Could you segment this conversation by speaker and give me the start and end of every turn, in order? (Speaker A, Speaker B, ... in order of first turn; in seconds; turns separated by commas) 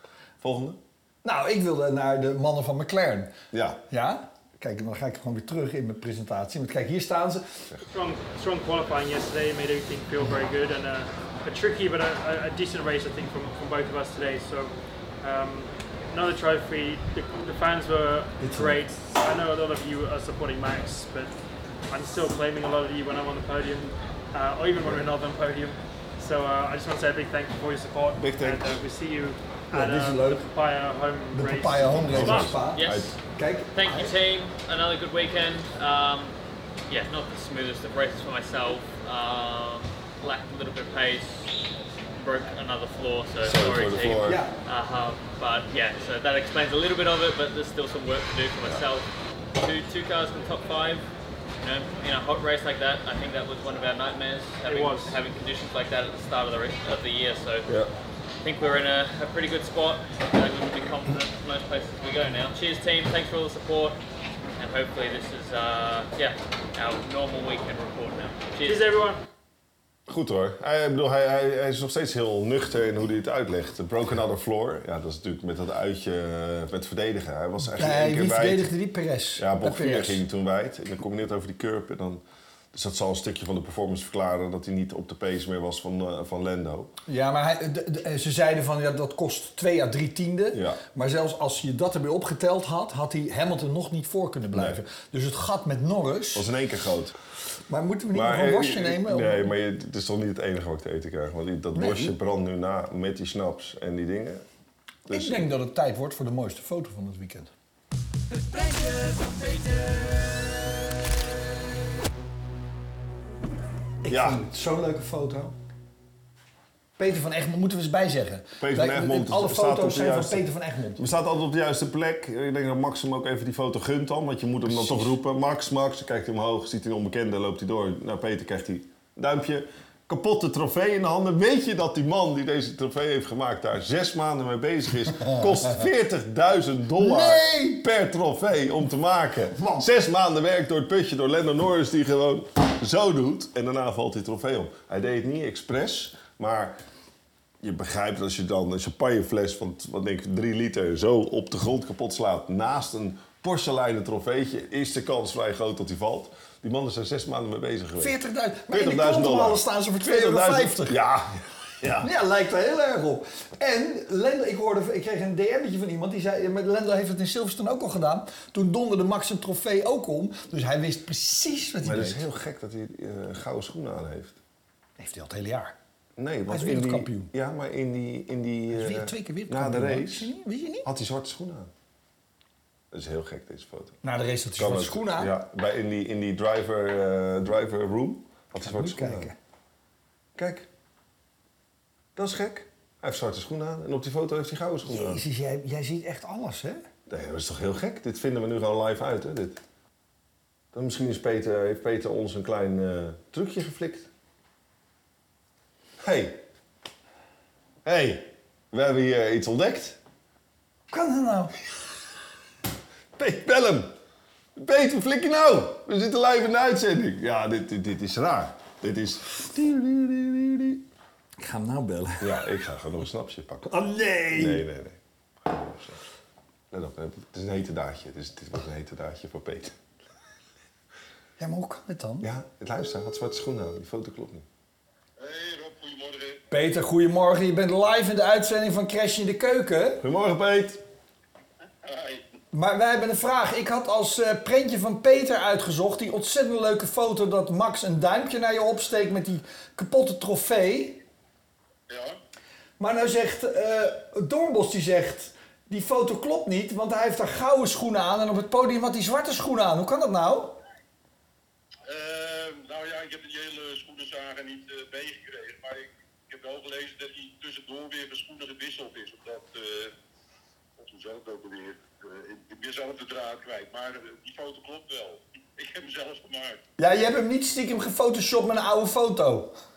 Speaker A: 0.4-0.8, Speaker B: 1.2-3.4, Speaker A: 3.5-3.8, Speaker B: 3.9-7.4, Speaker C: 7.9-21.3, Speaker B: 18.4-18.8, Speaker C: 21.9-32.6, Speaker A: 24.8-25.1, Speaker A: 28.2-28.7, Speaker B: 29.7-30.5, Speaker B: 31.3-32.8, Speaker A: 32.1-33.1, Speaker D: 32.7-33.1, Speaker B: 33.4-34.1, Speaker D: 33.7-36.3, Speaker D: 36.9-41.5, Speaker D: 42.2-51.0, Speaker A: 43.4-44.4, Speaker B: 44.2-44.5, Speaker D: 51.6-57.7, Speaker C: 54.7-55.2, Speaker A: 57.7-57.9, Speaker D: 58.4-64.0, Speaker D: 64.6-68.9, Speaker C: 68.6-69.2, Speaker A: 70.1-78.7, Speaker B: 77.6-80.2, Speaker A: 79.4-86.9, Speaker B: 87.1-96.5, Speaker A: 90.5-90.8, Speaker A: 94.5-94.8, Speaker A: 96.3-97.1, Speaker B: 97.7-99.5, Speaker A: 98.1-104.4, Speaker B: 101.7-102.2, Speaker A: 105.1-105.5, Speaker B: 105.1-107.5, Speaker B: 114.0-115.5, Speaker A: 114.1-114.4, Speaker B: 117.0-121.0, Speaker A: 118.6-146.8, Speaker B: 124.7-125.1, Speaker B: 137.0-137.8, Speaker B: 139.6-139.8, Speaker A: 147.6-158.2, Speaker B: 158.0-161.0, Speaker A: 158.7-162.1, Speaker B: 162.0-172.2, Speaker A: 171.8-174.4, Speaker B: 175.0-175.7, Speaker A: 176.2-180.3, Speaker B: 176.5-177.3, Speaker B: 178.7-180.9, Speaker A: 180.8-181.7, Speaker A: 182.9-184.0, Speaker B: 184.0-185.3, Speaker A: 184.6-189.3, Speaker B: 188.6-189.3, Speaker A: 190.3-190.7, Speaker A: 192.1-195.2, Speaker B: 194.9-196.8, Speaker A: 197.1-199.6, Speaker A: 200.7-204.1, Speaker A: 206.0-206.4, Speaker A: 207.8-210.0, Speaker B: 210.9-211.6, Speaker A: 213.2-213.9, Speaker A: 214.6-220.8, Speaker B: 221.4-222.3, Speaker A: 222.2-223.7, Speaker B: 223.7-224.6, Speaker A: 224.3-226.0, Speaker A: 226.7-229.8, Speaker B: 231.4-232.3, Speaker A: 232.2-234.4, Speaker E: 235.2-236.4, Speaker B: 236.5-240.0, Speaker A: 240.0-240.8, Speaker E: 241.8-242.3, Speaker B: 242.5-251.0, Speaker E: 251.9-252.2, Speaker B: 252.8-260.6, Speaker E: 261.9-269.9, Speaker E: 270.8-276.6, Speaker B: 276.8-279.5